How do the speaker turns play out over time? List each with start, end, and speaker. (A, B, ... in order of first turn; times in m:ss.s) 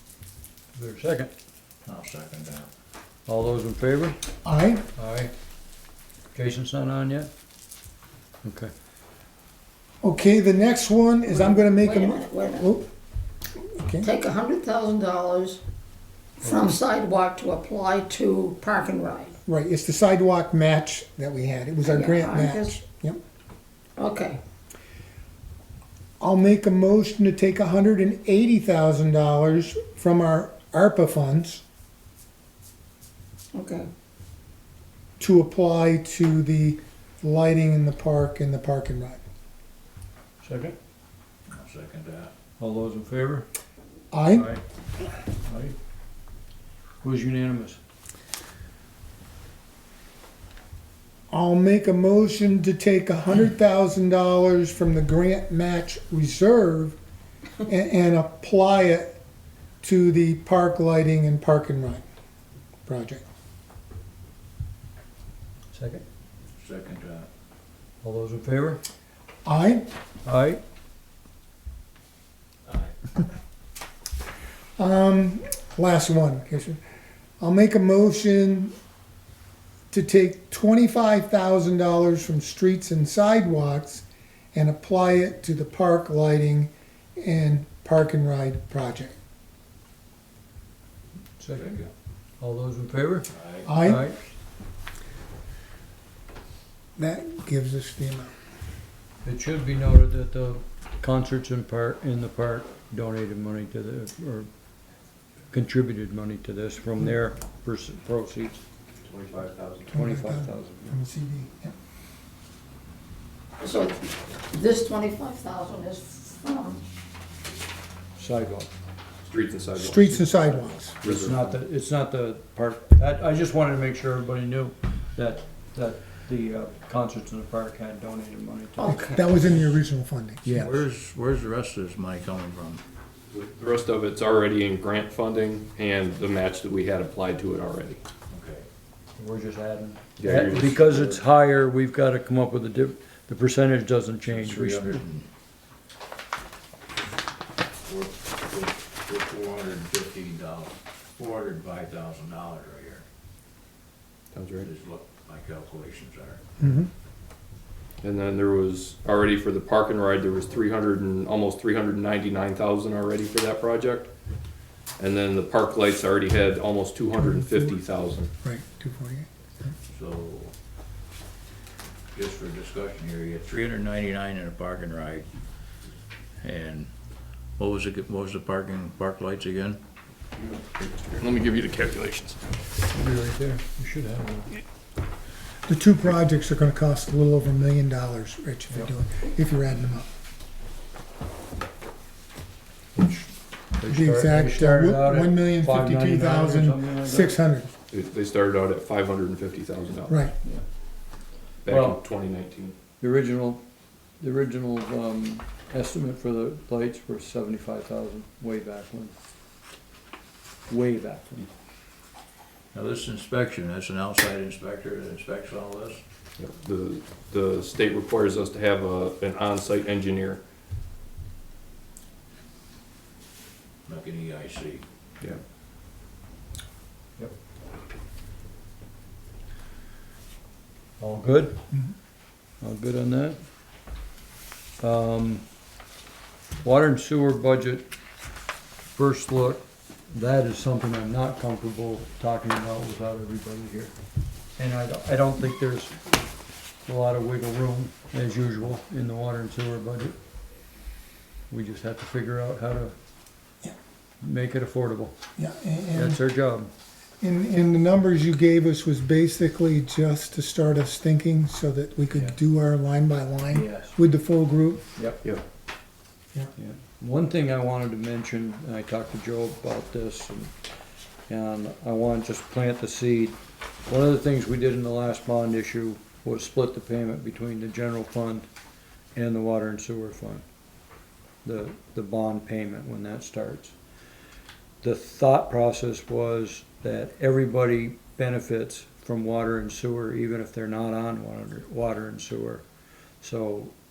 0:00.7-0:01.3 A
0:01.9-0:02.7 B
0:03.3-0:04.2 A
0:04.4-0:04.8 C
0:05.0-0:05.3 A
0:06.3-0:07.3 A
0:08.4-0:08.7 A
0:10.0-0:12.9 C
0:11.3-0:12.8 D
0:13.6-0:14.1 C
0:14.0-0:15.6 D
0:16.4-0:19.4 D
0:19.5-0:23.2 C
0:21.8-0:22.8 D
0:24.0-0:24.4 D
0:26.2-0:31.6 C
0:33.5-0:33.9 D
0:35.2-0:39.2 C
0:40.4-0:40.8 A
0:41.5-0:42.3 B
0:42.6-0:43.5 A
0:44.1-0:44.5 C
0:44.3-0:44.6 A
0:45.4-0:45.8 A
0:47.0-0:47.8 A
0:51.3-0:57.0 C
0:57.7-0:59.2 C
0:59.8-1:02.0 C
1:02.9-1:03.2 C
1:05.7-1:06.0 A
1:06.5-1:07.3 B
1:08.0-1:08.8 A
1:09.4-1:09.9 C
1:10.2-1:10.6 A
1:14.8-1:16.8 C
1:17.4-1:18.7 C
1:19.9-1:29.2 C
1:31.4-1:31.8 A
1:31.5-1:31.9 B
1:32.4-1:34.2 A
1:33.3-1:33.7 B
1:33.6-1:34.0 C
1:37.0-1:38.3 C
1:39.2-1:44.5 A
1:45.5-1:48.6 A
1:49.0-1:49.9 E
1:49.9-1:51.7 C
1:49.9-1:51.0 A
1:53.6-1:56.8 D
1:58.2-1:58.7 A
1:59.2-2:00.4 E
1:59.8-2:01.0 C
2:01.0-2:09.2 A
2:01.0-2:01.5 E
2:08.8-2:09.3 D
2:08.8-2:10.7 C
2:10.5-2:12.8 B
2:13.3-2:18.0 E
2:18.3-2:18.7 B
2:19.2-2:25.0 A
2:20.2-2:21.2 E
2:24.2-2:25.3 B
2:27.8-2:33.0 B
2:34.3-2:34.7 E
2:34.6-2:36.4 B
2:36.6-2:36.9 C
2:38.0-2:44.1 E
2:45.0-2:48.3 E
2:47.2-2:47.8 C
2:48.4-2:49.7 C
2:49.9-2:50.5 B
2:52.1-2:55.3 B
2:56.4-2:56.9 B
2:57.6-2:59.8 B
3:00.4-3:02.4 E
3:02.9-3:04.6 A
3:05.7-3:10.0 C
3:13.0-3:17.4 A
3:13.9-3:17.7 C
3:17.9-3:20.2 E
3:20.1-3:20.3 C
3:21.6-3:22.8 E
3:21.7-3:22.0 A
3:23.0-3:23.6 A
3:24.2-3:29.2 A
3:30.7-3:31.5 A
3:32.7-3:36.0 B
3:36.4-3:40.4 E
3:43.9-3:44.8 B
3:51.0-3:51.6 A
3:52.6-3:53.4 A
3:54.8-3:55.4 A
3:56.6-3:57.9 A
3:58.9-4:04.0 A
4:04.6-4:06.2 A
4:06.9-4:10.2 A
4:11.5-4:13.0 A
4:14.2-4:15.2 A
4:15.4-4:16.2 C
4:15.9-4:16.7 A
4:17.2-4:24.9 C
4:23.5-4:24.0 A
4:25.0-4:25.2 A
4:26.6-4:30.5 A
4:31.3-4:38.5 A
4:39.2-4:40.4 A
4:41.4-4:43.8 A
4:44.8-4:52.6 A
4:53.2-4:53.7 A